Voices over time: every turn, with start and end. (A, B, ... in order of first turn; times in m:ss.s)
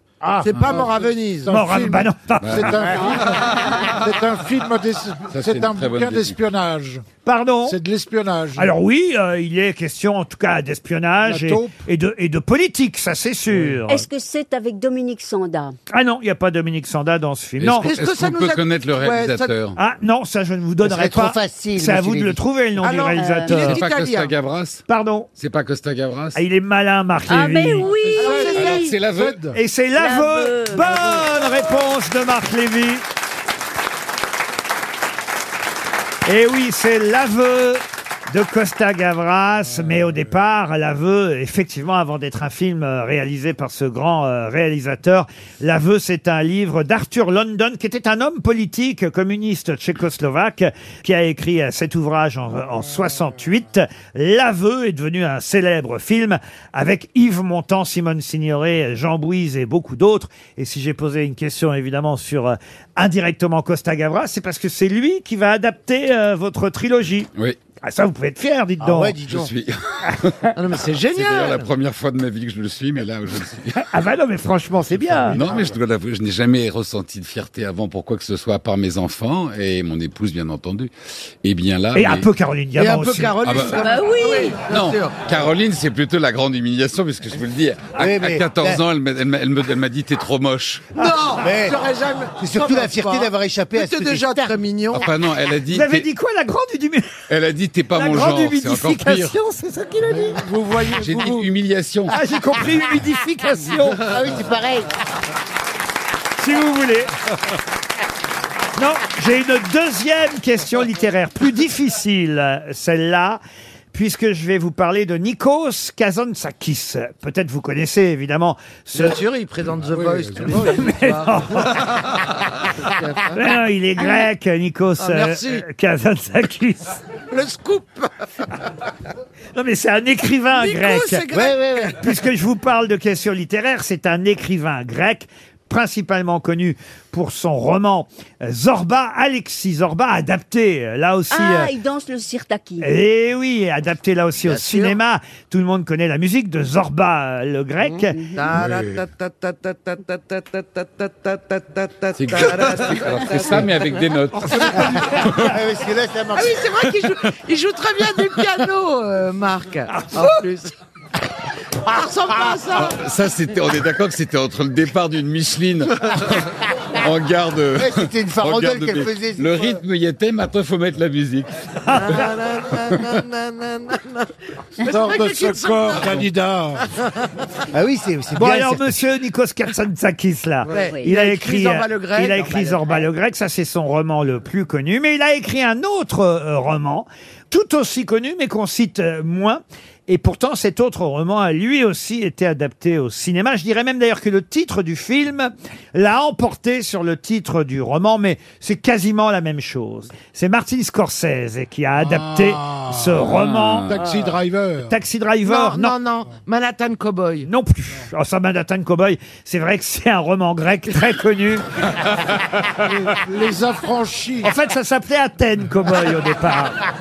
0:00.2-0:07.0 A
0:00.4-0:01.5 B
0:01.5-0:02.8 C
0:02.4-0:02.8 D
0:05.3-0:06.4 D
0:07.2-0:07.8 C
0:07.7-0:08.7 A
0:08.6-0:14.1 C
0:11.2-0:11.8 A
0:13.5-0:13.8 A
0:13.9-0:15.8 E
0:15.9-0:17.9 C
0:17.6-0:19.8 D
0:17.8-0:19.6 B
0:19.8-0:23.8 C
0:20.8-0:22.4 F
0:22.8-0:24.3 B
0:23.2-0:23.6 E
0:23.5-0:24.8 D
0:24.9-0:25.3 C
0:25.4-0:26.4 D
0:26.4-0:27.9 C
0:27.3-0:28.8 E
0:28.1-0:29.6 A
0:28.2-0:28.9 B
0:28.5-0:29.4 D
0:29.5-0:33.0 C
0:30.0-0:31.3 E
0:36.3-1:07.3 C
0:39.7-0:40.2 A
1:07.8-1:09.2 C
1:08.8-1:09.5 F
1:09.3-1:13.9 D
1:10.6-1:11.7 B
1:13.8-1:15.4 C
1:15.3-1:20.9 D
1:15.4-1:15.6 A
1:21.4-1:22.3 D
1:21.9-1:23.4 C
1:22.8-1:25.2 B
1:23.4-1:23.8 D
1:23.7-1:24.6 E
1:24.7-1:30.9 D
1:28.0-1:28.8 F
1:31.0-1:35.1 B
1:31.4-1:31.8 F
1:32.4-1:34.6 F
1:34.9-1:36.1 D
1:35.7-1:37.2 C
1:37.3-1:39.4 D
1:37.9-1:40.2 C
1:40.1-1:41.4 A
1:40.8-1:41.3 B
1:40.9-1:42.2 D
1:42.1-1:44.2 C
1:43.9-1:44.9 F
1:46.4-1:47.1 C
1:48.8-1:53.4 C
1:53.9-1:59.2 C
1:59.0-2:02.0 B
1:59.8-2:00.9 A
2:00.6-2:02.0 C
2:02.8-2:03.4 B
2:03.3-2:07.0 C
2:05.0-2:05.6 B
2:07.3-2:08.1 B
2:09.6-2:11.2 C
2:10.6-2:12.0 B
2:11.3-2:12.0 F
2:11.9-2:21.7 C
2:21.3-2:22.9 E
2:22.8-2:28.2 C
2:24.4-2:25.0 B
2:28.2-2:28.5 E
2:28.4-2:33.8 B
2:28.6-2:28.9 A
2:32.2-2:35.6 D
2:34.5-2:35.3 B
2:35.0-2:36.6 F
2:36.3-2:40.7 B
2:41.8-2:43.0 B
2:42.8-2:52.2 D
2:47.8-2:49.8 F
2:51.9-2:56.3 B
2:54.8-2:56.9 A
2:57.7-2:59.0 F
2:58.4-3:23.9 C
3:00.7-3:03.0 B
3:00.7-3:01.0 E
3:22.0-3:23.3 A
3:23.2-3:24.1 D
3:23.8-3:24.9 A
3:24.8-3:25.9 C
3:25.4-3:27.5 B
3:27.5-3:31.7 C
3:32.8-3:34.5 A
3:34.4-3:36.8 C